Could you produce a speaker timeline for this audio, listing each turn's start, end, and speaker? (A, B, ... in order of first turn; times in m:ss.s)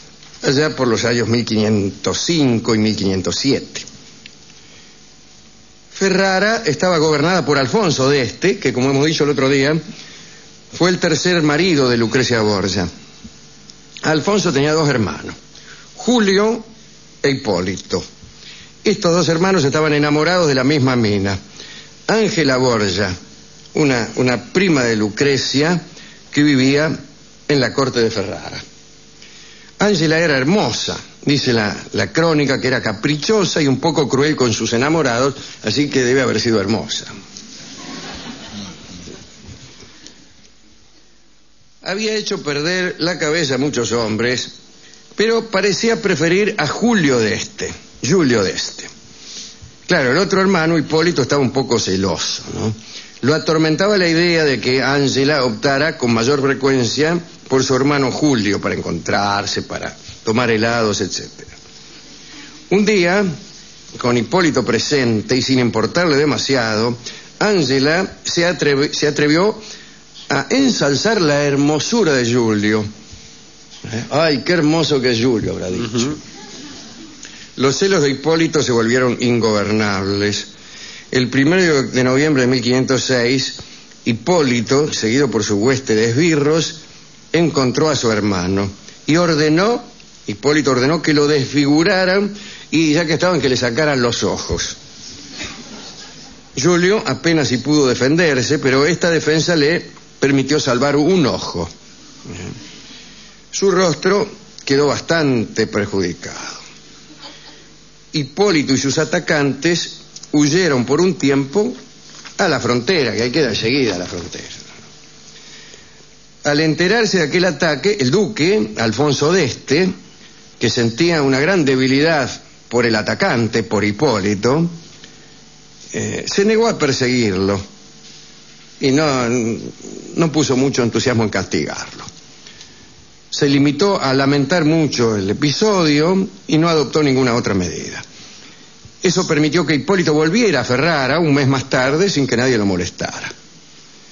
0:00.4-0:03.8 A
0:05.9-0:09.8 A
0:10.7-0:12.9 A
0:14.0-0:15.3 A
0:16.0-0:16.6 A
0:17.2-0:18.0 A
0:18.8-0:21.4 A
0:22.1-0:23.1 A
0:23.7-0:27.0 A
0:27.5-0:28.6 A
0:29.8-0:37.1 A
0:41.8-0:44.5 A
0:45.2-0:48.9 A
0:49.9-1:01.5 A
1:02.7-1:03.3 A
1:04.0-1:09.6 A
1:10.3-1:12.9 A
1:13.8-1:16.2 A
1:17.6-1:20.5 A
1:21.1-1:26.8 A
1:27.3-1:34.8 A
1:36.6-1:41.7 A
1:43.5-1:46.6 A
1:48.1-1:51.8 A
1:52.4-1:54.6 A
1:56.4-1:59.9 A
2:00.6-2:04.7 A
2:05.9-2:07.6 A
2:08.8-2:12.0 A
2:13.3-2:18.0 A
2:19.0-2:23.3 A